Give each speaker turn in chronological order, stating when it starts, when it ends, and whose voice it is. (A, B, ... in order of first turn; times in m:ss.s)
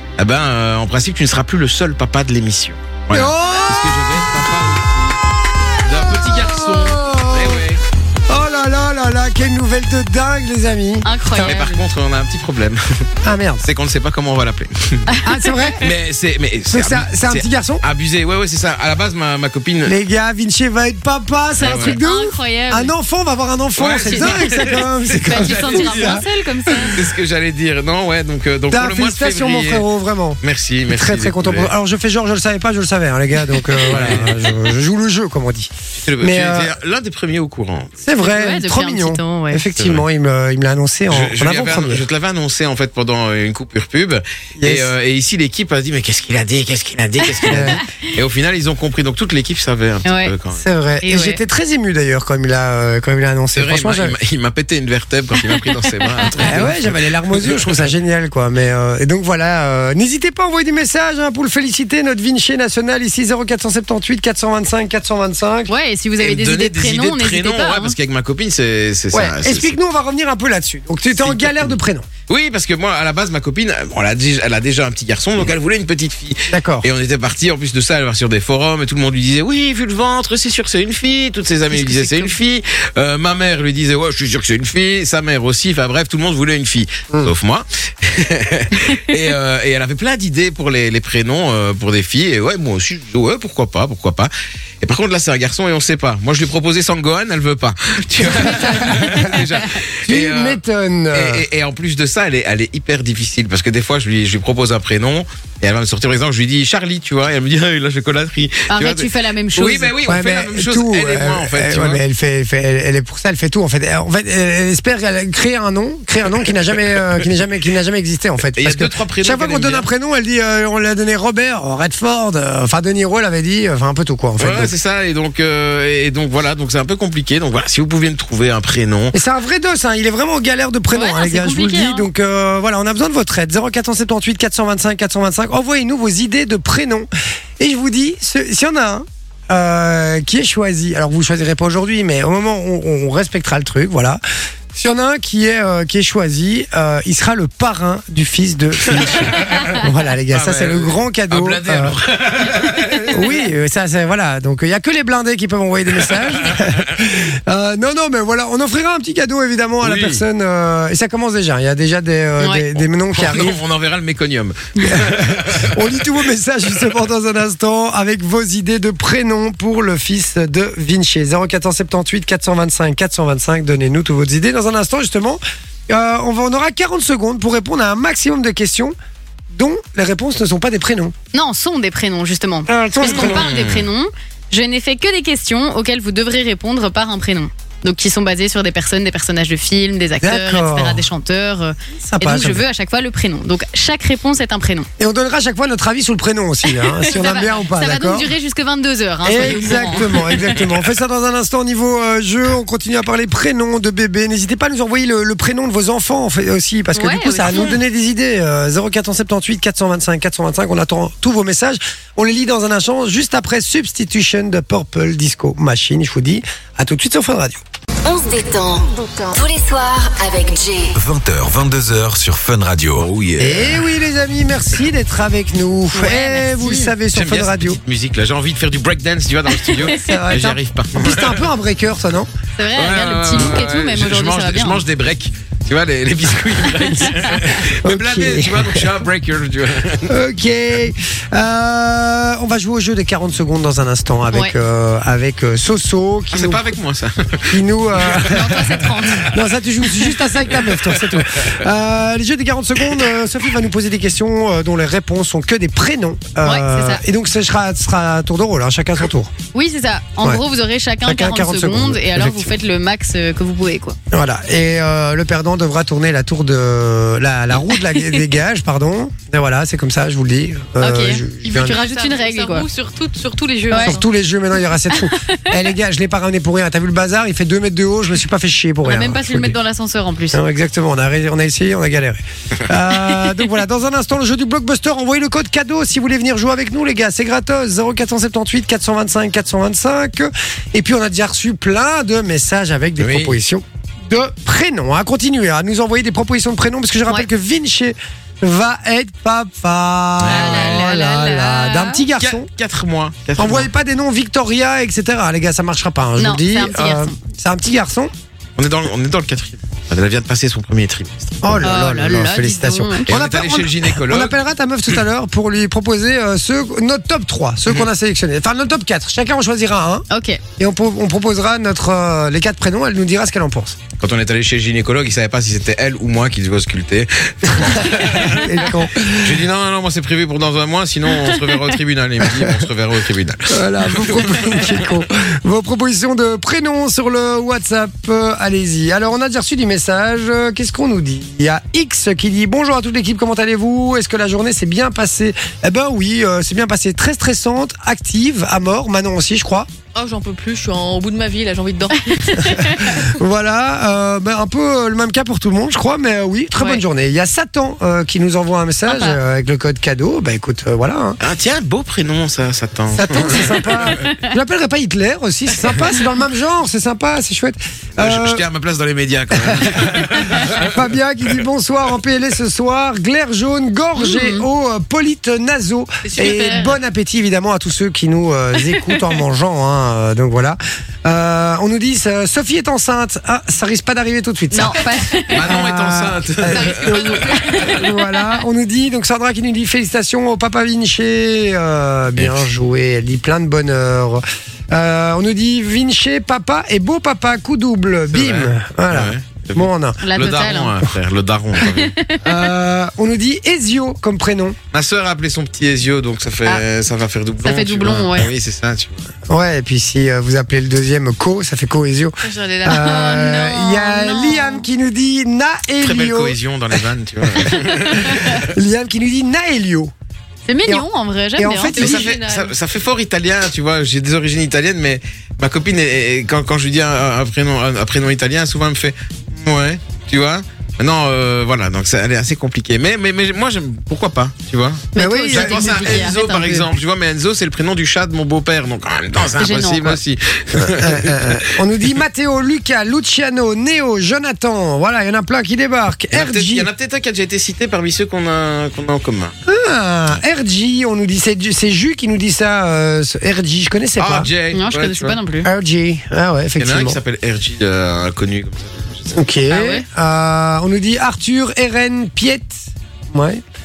0:00.2-0:05.2 A
0:03.1-0:03.9 B
0:05.8-0:07.8 A
0:06.3-0:07.6 B
0:08.3-0:11.6 B
0:11.0-0:11.8 C
0:11.4-0:13.1 A
0:13.2-0:13.6 B
0:13.6-0:15.0 A
0:15.1-0:15.7 C
0:15.2-0:15.9 B
0:15.8-0:20.0 A
0:16.7-0:17.8 B
0:19.9-0:27.0 B
0:21.6-0:22.0 A
0:21.6-0:22.9 C
0:23.8-0:26.2 A
0:24.1-0:24.4 C
0:25.3-0:27.0 C
0:26.9-0:29.8 A
0:28.7-0:36.7 B
0:30.4-0:31.7 A
0:33.9-0:34.4 A
0:36.0-0:37.9 A
0:38.0-0:42.0 B
0:38.2-0:39.6 C
0:39.8-0:40.0 A
0:41.1-0:50.6 A
0:44.6-0:44.9 B
0:47.3-0:47.8 C
0:47.5-0:47.8 B
0:50.0-0:50.3 C
0:50.6-0:54.2 B
0:51.0-0:51.4 C
0:53.6-0:57.8 A
0:55.5-0:56.5 C
0:56.4-1:05.7 B
1:05.7-1:08.0 C
1:06.2-1:09.7 A
1:09.1-1:12.1 B
1:11.1-1:11.8 A
1:12.3-1:40.6 A
1:16.5-1:16.9 B
1:21.8-1:22.3 B
1:38.2-1:39.4 B
1:38.3-1:39.4 C
1:40.0-1:41.4 B
1:41.1-1:52.0 A
1:48.7-1:50.0 C
1:50.0-2:04.7 B
1:58.6-1:59.9 A
2:04.4-2:09.2 A
2:09.1-2:17.1 B
2:10.9-2:12.1 C
2:17.6-2:24.2 B
2:24.7-2:32.0 B
2:28.9-2:33.3 A
2:33.1-2:43.6 B
2:36.0-2:37.0 A
2:39.8-2:40.2 A
2:42.4-2:42.7 C
2:43.2-2:46.0 A
2:44.8-2:59.0 B
2:59.5-3:01.1 B
3:01.3-3:14.9 C
3:02.7-3:03.5 B
3:03.0-3:03.9 A
3:10.2-3:11.1 B
3:12.0-3:12.6 B
3:15.0-3:18.3 B
3:16.7-3:20.4 C
3:19.2-3:37.6 B
3:19.4-3:20.8 A
3:27.0-3:27.7 C
3:38.1-3:41.0 D
3:40.9-3:43.1 E
3:43.0-3:43.9 A
3:43.4-3:47.8 B
3:45.9-3:46.9 C
3:47.1-3:51.5 A
3:49.6-3:50.1 C
3:49.8-3:52.3 B
3:52.6-3:54.8 C
3:52.8-4:00.1 A
3:57.8-3:58.9 B
4:00.1-4:06.6 B
4:04.3-4:04.6 C
4:06.3-4:08.7 A
4:07.5-4:19.3 B
4:08.1-4:09.3 C
4:10.6-4:11.5 A
4:16.4-4:17.0 C
4:19.5-4:24.0 C
4:21.0-4:22.6 B
4:24.1-4:31.8 B
4:30.8-4:32.7 C
4:31.4-4:34.1 F
4:33.7-4:34.0 C
4:33.8-4:39.6 B
4:38.8-4:40.4 C
4:40.3-5:02.5 B
4:53.0-4:53.4 A
5:00.2-5:00.9 A
5:00.2-5:02.0 C
5:02.2-5:03.7 A
5:03.4-5:08.1 B
5:06.2-5:07.2 C
5:08.6-5:11.6 A
5:11.4-5:20.0 B
5:11.6-5:13.1 C
5:13.1-5:14.4 A
5:20.1-5:20.4 C
5:20.6-5:23.8 B
5:24.0-5:34.8 A
5:27.5-5:29.4 B
5:31.1-5:32.6 B
5:33.5-5:49.7 B
5:50.0-5:52.8 F
5:52.1-5:52.8 C
5:52.5-6:01.2 B
5:58.9-5:59.2 C
6:01.2-6:03.9 A
6:02.9-6:08.4 B
6:04.0-6:04.3 C
6:08.0-6:10.8 A
6:09.3-6:24.9 B
6:14.0-6:14.4 C
6:16.0-6:16.8 F
6:18.6-6:19.0 C
6:24.5-6:25.5 C
6:25.3-6:27.3 A
6:25.4-6:40.0 B
6:26.5-6:27.9 F
6:27.6-6:28.0 C
6:32.2-6:32.5 A
6:38.1-6:42.0 A
6:40.0-6:40.8 C
6:41.7-6:42.2 C
6:42.2-6:44.6 B
6:44.7-6:49.1 A
6:47.4-6:48.3 C
6:49.3-6:56.4 B
6:52.2-6:52.9 F
6:52.7-6:54.6 C
6:55.8-6:58.5 A
6:57.3-6:59.9 B
7:00.5-7:02.0 C
7:01.4-7:02.1 B
7:01.7-7:21.6 A
7:01.8-7:02.5 F
7:15.0-7:16.6 C
7:15.0-7:16.6 B
7:19.4-7:20.0 C
7:20.6-7:26.7 B
7:26.1-7:29.4 A
7:29.5-7:34.3 B
7:34.0-7:35.2 A
7:34.5-7:35.5 C
7:35.4-7:37.0 B
7:36.6-7:39.2 A
7:39.1-7:43.4 B
7:39.5-7:39.9 C